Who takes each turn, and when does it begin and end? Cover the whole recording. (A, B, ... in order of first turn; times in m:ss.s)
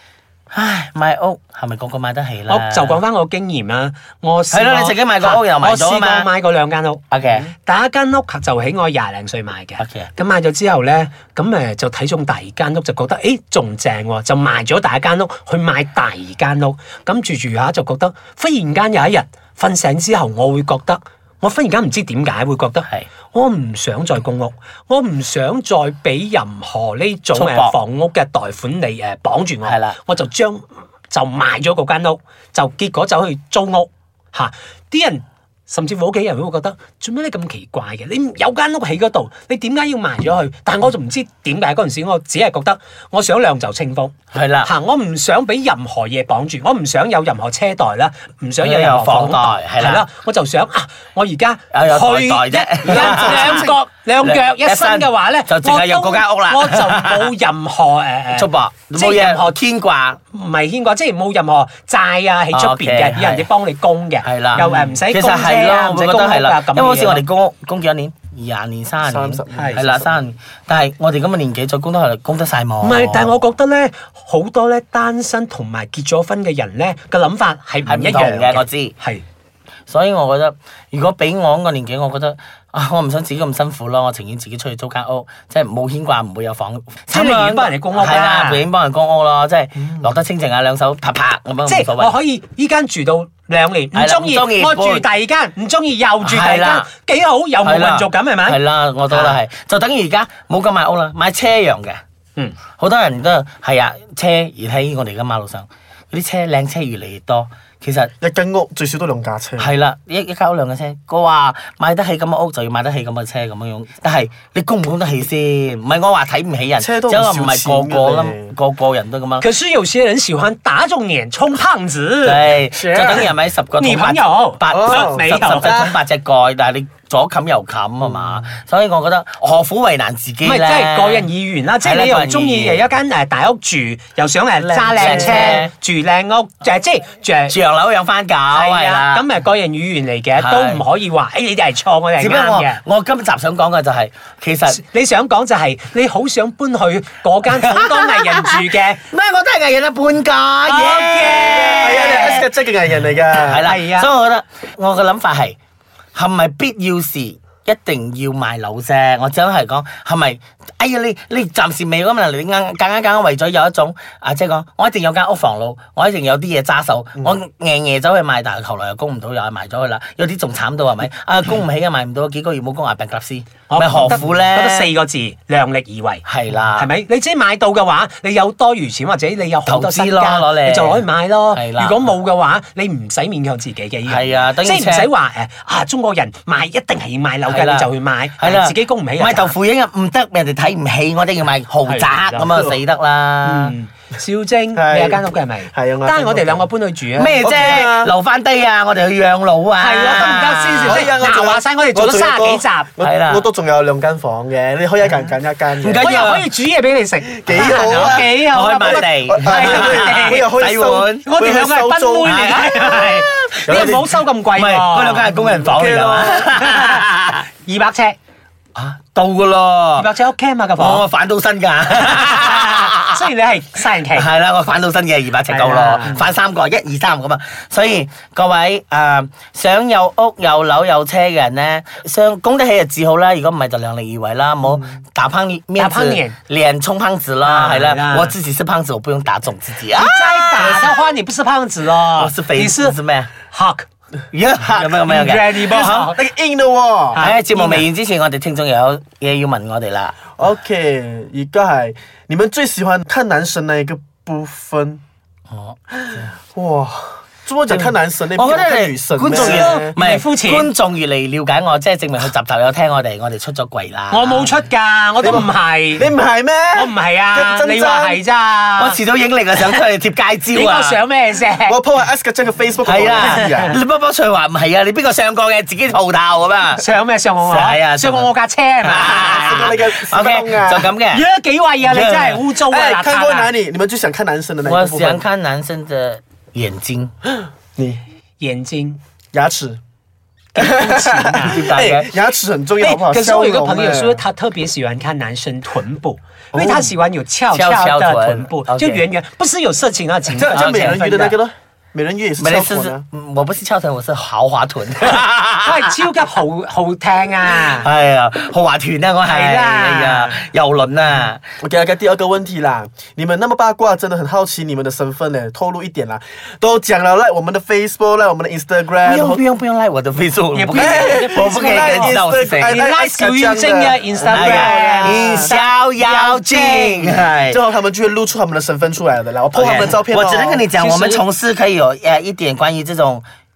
0:00.5-0:03.0 A
0:02.5-0:59.6 B
0:04.5-0:06.3 A
0:07.1-0:07.5 A
0:09.8-0:10.1 A
0:27.3-0:27.8 A
0:29.6-0:30.0 A
0:44.3-0:44.7 A
0:48.6-0:50.0 A
0:51.7-0:57.3 A
0:52.9-0:53.8 C
0:58.3-1:00.2 A
1:00.3-1:07.2 B
1:02.5-1:03.5 A
1:04.2-1:13.4 A
1:09.0-1:10.1 C
1:09.5-1:09.8 B
1:12.8-1:19.2 B
1:17.8-1:18.9 A
1:19.9-1:32.2 A
1:27.1-1:28.6 B
1:31.7-1:39.4 B
1:33.9-1:35.0 A
1:36.2-1:36.9 A
1:37.6-1:42.0 A
1:42.8-1:48.1 A
1:48.2-1:49.7 C
1:49.6-1:59.5 A
1:56.8-1:58.5 C
1:59.4-2:02.5 B
2:02.2-2:11.3 A
2:02.8-2:03.3 C
2:03.8-2:05.7 B
2:04.7-2:05.9 C
2:08.1-2:08.4 C
2:10.4-2:17.6 B
2:11.8-2:12.9 A
2:14.6-2:15.7 A
2:17.5-2:19.2 A
2:18.5-2:22.8 B
2:20.4-2:20.8 A
2:22.2-2:24.8 A
2:24.7-2:29.0 B
2:27.5-2:32.5 A
2:30.6-2:32.3 B
2:31.8-2:33.7 C
2:33.3-2:35.6 A
2:33.6-2:34.1 B
2:36.1-2:54.9 A
2:53.7-2:56.2 B
2:56.2-2:56.9 A
2:56.8-3:09.5 B
2:59.6-3:02.1 A
3:04.0-3:05.1 A
3:07.4-3:13.7 A
3:11.8-3:12.5 B
3:12.4-3:12.8 C
3:13.4-3:17.4 B
3:14.7-3:16.7 C
3:17.1-3:21.1 A
3:17.4-3:18.1 C
3:19.8-3:22.9 B
3:20.8-3:26.1 C
3:23.0-3:23.4 A
3:25.8-3:26.5 A
3:26.0-3:30.4 B
3:27.3-3:32.5 C
3:27.5-3:31.3 A
3:31.2-3:38.2 B
3:32.2-3:37.4 A
3:33.6-3:34.0 C
3:38.7-3:40.1 A
3:40.0-3:41.0 B
3:40.8-3:43.3 A
3:41.9-3:44.3 B
3:44.1-4:01.0 A
3:45.5-3:46.2 B
3:55.8-3:56.4 B
3:57.4-3:58.3 B
3:59.9-4:03.9 B
4:02.1-4:03.3 A
4:04.3-4:06.1 A
4:05.0-4:06.2 B
4:06.1-4:07.2 C
4:07.1-4:07.8 B
4:07.2-4:10.2 A
4:10.3-4:15.0 C
4:15.5-4:16.3 A
4:16.5-4:19.9 C
4:17.7-4:24.6 A
4:19.3-4:20.7 B
4:24.1-4:26.1 B
4:25.2-4:28.2 C
4:26.7-4:29.0 B
4:28.8-4:31.0 A
4:30.5-4:31.8 B
4:31.7-4:33.8 C
4:32.8-4:36.8 A
4:33.2-4:33.7 B
4:36.8-4:39.8 B
4:37.4-4:41.2 A
4:39.3-4:40.9 C
4:41.1-4:43.5 B
4:41.8-4:42.4 A
4:42.6-4:45.2 C
4:44.6-4:47.1 A
4:47.8-4:48.0 C
4:48.4-4:49.0 B
4:49.3-4:49.8 C
4:50.5-4:52.1 A
4:50.6-4:54.2 C
4:52.8-5:00.9 B
4:56.5-4:56.9 C
4:57.5-4:59.0 A
5:00.3-5:03.0 C
5:00.5-5:01.4 A
5:02.4-5:06.1 A
5:05.6-5:07.9 B
5:07.5-5:11.4 A
5:09.2-5:10.4 B
5:11.6-5:19.4 C
5:19.0-5:22.8 A
5:20.5-5:27.2 B
5:20.7-5:25.6 C
5:24.2-5:27.6 A
5:27.5-5:30.7 C
5:29.5-5:33.2 A
5:30.8-5:31.2 B